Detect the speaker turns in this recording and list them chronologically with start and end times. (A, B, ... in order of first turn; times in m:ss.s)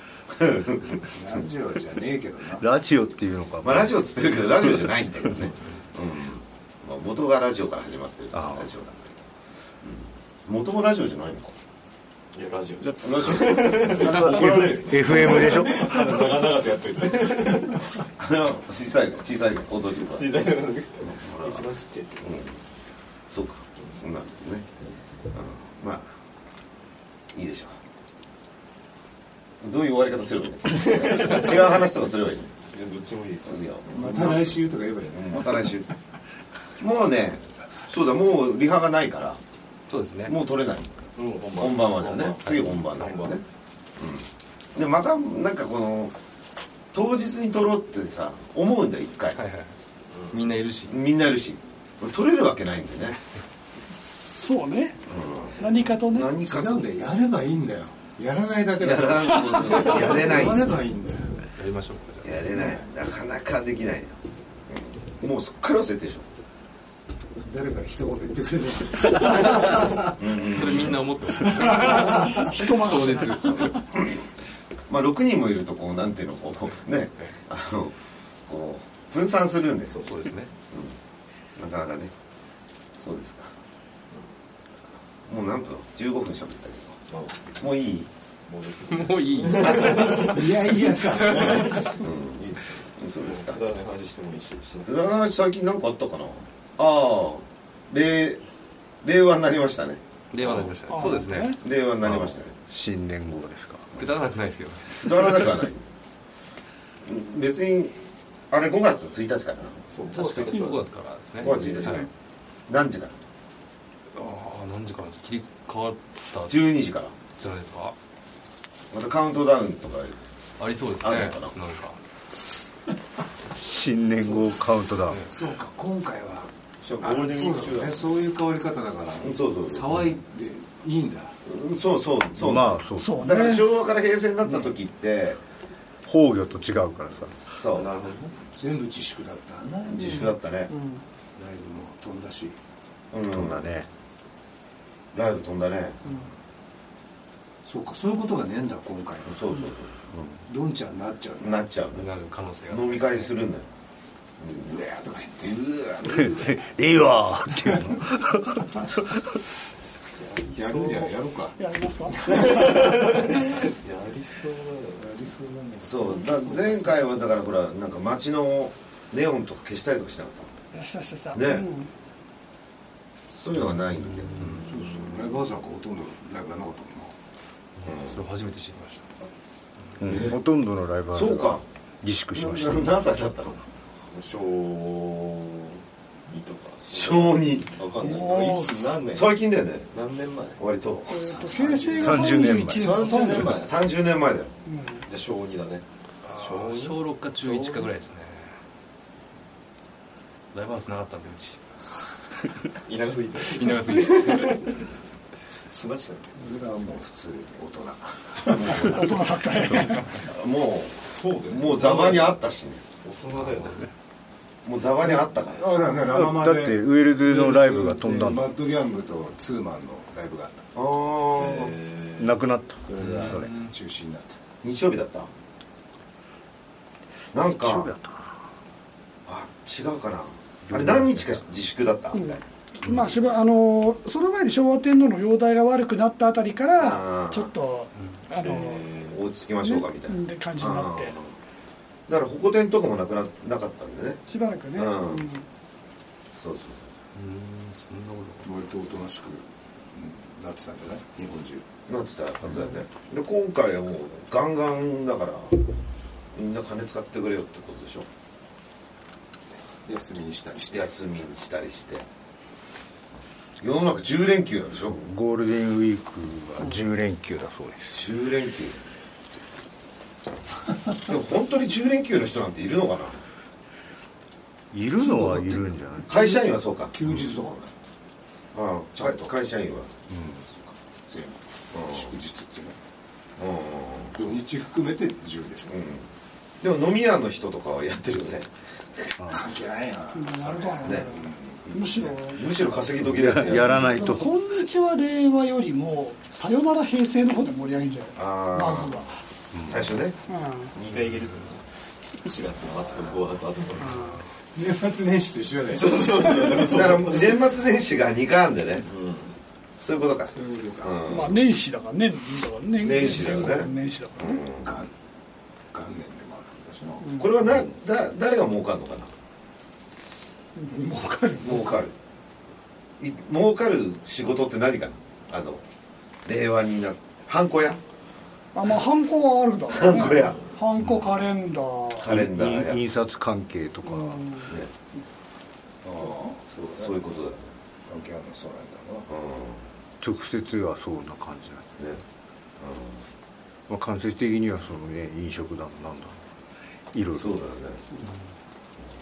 0:00.4-0:01.0 A
0:01.1-0:02.6 B
0:02.6-0:04.0 C
0:03.6-0:09.2 A
0:08.3-0:08.7 C
0:09.8-0:11.6 A
0:12.3-0:17.8 D
0:13.0-0:14.3 A
0:13.8-0:16.3 C
0:18.2-0:20.5 A
0:20.1-0:22.4 D
0:21.0-0:21.6 A
0:22.2-0:22.5 A
0:23.3-0:24.7 A
0:25.3-0:26.1 A
0:27.3-0:27.8 A
0:29.6-0:32.5 A
0:30.8-0:31.7 D
0:32.7-0:33.7 D
0:33.5-0:35.9 A
0:33.9-0:35.7 B
0:36.8-0:39.4 A
0:39.9-0:40.4 E
0:40.3-0:43.4 A
0:41.2-0:43.4 D
0:44.0-0:46.2 A
0:46.9-0:49.4 A
0:49.4-0:49.7 E
0:50.3-0:51.0 E
0:50.9-0:53.2 A
0:54.4-0:55.0 F
0:55.1-0:56.9 A
0:55.6-0:56.3 F
0:56.4-1:01.5 B
0:58.8-1:00.7 A
1:01.6-1:02.4 E
1:02.2-1:06.3 A
1:02.6-1:02.8 B
1:07.4-1:10.0 B
1:10.1-1:11.1 A
1:10.3-1:13.8 E
1:11.6-1:13.8 F
1:13.5-1:14.2 A
1:14.9-1:20.1 A
1:20.0-1:20.5 E
1:20.7-1:21.0 A
1:21.6-1:22.1 A
1:23.0-1:23.5 A
1:25.3-1:27.0 A
1:27.1-1:27.6 D
1:27.6-1:28.1 A
1:28.5-1:30.5 D
1:28.9-1:30.6 E
1:30.2-1:32.0 B
1:31.2-1:35.0 D
1:32.0-1:33.6 A
1:34.9-1:38.4 A
1:39.0-1:40.0 A
1:40.3-1:41.6 E
1:40.9-1:41.6 F
1:41.5-1:42.5 A
1:42.0-1:44.0 C
1:43.9-1:45.5 E
1:44.9-1:45.8 A
1:47.0-1:48.0 A
1:48.5-1:49.9 A
1:49.9-1:50.8 D
1:50.2-1:52.1 E
1:51.4-1:52.1 A
1:51.4-1:52.0 D
1:52.7-1:53.2 A
1:54.1-1:56.7 E
1:56.5-1:57.2 A
1:57.4-1:58.0 E
1:58.9-2:00.2 A
2:00.6-2:02.0 E
2:01.0-2:01.5 A
2:03.6-2:05.2 C
2:05.3-2:11.4 B
2:06.8-2:08.0 D
2:09.2-2:09.9 A
2:11.4-2:15.4 A
2:12.4-2:13.3 C
2:13.0-2:13.7 F
2:16.0-2:17.5 C
2:17.4-2:18.0 A
2:17.7-2:18.4 D
2:18.5-2:20.4 B
2:19.9-2:20.7 A
2:20.7-2:21.0 F
2:21.4-2:22.6 B
2:23.1-2:23.7 A
2:23.3-2:23.9 C
2:25.1-2:26.3 A
2:27.6-2:29.4 B
2:29.3-2:30.4 A
2:30.5-2:31.6 B
2:31.4-2:32.1 A
2:31.9-2:33.3 E
2:32.7-2:33.7 A
2:34.4-2:34.8 A
2:34.6-2:35.6 B
2:35.4-2:36.6 A
2:36.1-2:39.3 C
2:37.7-2:38.0 B
2:40.2-2:43.0 B
2:41.6-2:42.8 F
2:42.3-2:45.0 D
2:44.9-2:47.0 B
2:45.8-2:50.5 A
2:50.7-2:51.9 F
2:51.3-2:51.7 A
2:53.3-2:54.6 A
2:54.6-2:57.2 B
2:57.8-2:59.3 E
2:57.8-2:58.2 A
3:00.0-3:02.9 C
3:01.1-3:01.6 A
3:02.3-3:03.6 A
3:04.1-3:09.4 D
3:06.9-3:07.8 A
3:08.0-3:08.9 F
3:09.1-3:09.9 A
3:09.9-3:10.6 D
3:10.6-3:11.2 A
3:11.1-3:13.6 F
3:11.2-3:12.5 B
3:12.0-3:13.0 C
3:12.7-3:13.9 D
3:13.1-3:14.5 A
3:14.7-3:15.0 F
3:15.0-3:17.9 D
3:16.2-3:18.5 E
3:20.5-3:21.6 E
3:22.8-3:24.9 D
3:23.4-3:24.7 E
3:25.7-3:26.4 D
3:26.4-3:28.8 B
3:28.5-3:29.2 A
3:28.6-3:30.2 F
3:30.1-3:32.8 A
3:31.1-3:32.4 D
3:33.0-3:33.9 D
3:34.6-3:35.7 A
3:35.1-3:40.7 B
3:36.1-3:38.5 C
3:40.8-3:41.8 A
3:41.3-3:42.3 D
3:42.2-3:43.5 C
3:42.8-3:43.2 D
3:42.9-3:44.4 B
3:43.0-3:43.7 E
3:44.6-3:45.3 A
3:47.3-3:47.9 A
3:47.4-3:48.4 C
3:49.3-3:52.4 A
3:50.7-3:51.4 C
3:52.1-3:59.0 F
3:56.8-3:57.5 A
3:58.4-3:59.2 D
3:59.1-4:01.3 A
3:59.6-4:01.2 F
4:02.1-4:04.2 A
4:04.3-4:05.4 F
4:04.8-4:05.3 A
4:06.4-4:06.8 A
4:07.2-4:08.5 E
4:08.4-4:11.7 B
4:11.9-4:15.6 A
4:16.3-4:18.1 A
4:19.8-4:20.9 B
4:20.7-4:22.1 A
4:23.6-4:25.0 A
4:24.9-4:28.0 C
4:27.9-4:28.8 A
4:31.0-4:33.2 A
4:34.7-4:36.1 C
4:35.0-4:36.3 B
4:36.1-4:37.2 A
4:36.9-4:37.7 B
4:38.5-4:39.9 A
4:39.0-4:39.3 B
4:40.1-4:40.4 C
4:41.1-4:42.8 B
4:41.7-4:42.2 A
4:43.4-4:44.2 A
4:44.1-4:45.7 B
4:45.7-4:46.1 A
4:46.6-4:49.1 A
4:49.3-4:51.6 B
4:50.2-4:52.4 F
4:50.8-4:51.1 A
4:51.7-4:54.0 A
4:53.0-4:54.4 C
4:53.7-4:59.2 F
4:58.2-4:59.0 A
4:59.5-5:00.0 C
4:59.7-5:00.2 A
5:00.3-5:00.7 F
5:00.7-5:01.6 D
5:02.2-5:04.1 D
5:03.8-5:04.2 F
5:04.6-5:06.7 B
5:05.7-5:07.4 D
5:06.6-5:08.9 A
5:08.9-5:09.4 D
5:09.8-5:11.4 A
5:10.2-5:11.2 B
5:11.1-5:14.4 F
5:12.8-5:14.8 A
5:14.6-5:14.9 B
5:15.7-5:17.6 B
5:17.2-5:19.1 A
5:20.6-5:21.8 F
5:21.4-5:22.0 A
5:23.0-5:25.6 A
5:26.2-5:27.8 A
5:28.5-5:32.1 F
5:29.7-5:30.4 A
5:32.0-5:32.8 A
5:32.0-5:34.3 C
5:33.9-5:34.5 F
5:35.8-5:37.2 B
5:36.7-5:37.4 A
5:37.9-5:39.1 B
5:39.1-5:39.6 A
5:40.0-5:41.7 C
5:42.6-5:43.0 A
5:43.7-5:46.2 C
5:46.9-5:47.4 C
5:47.2-5:47.8 A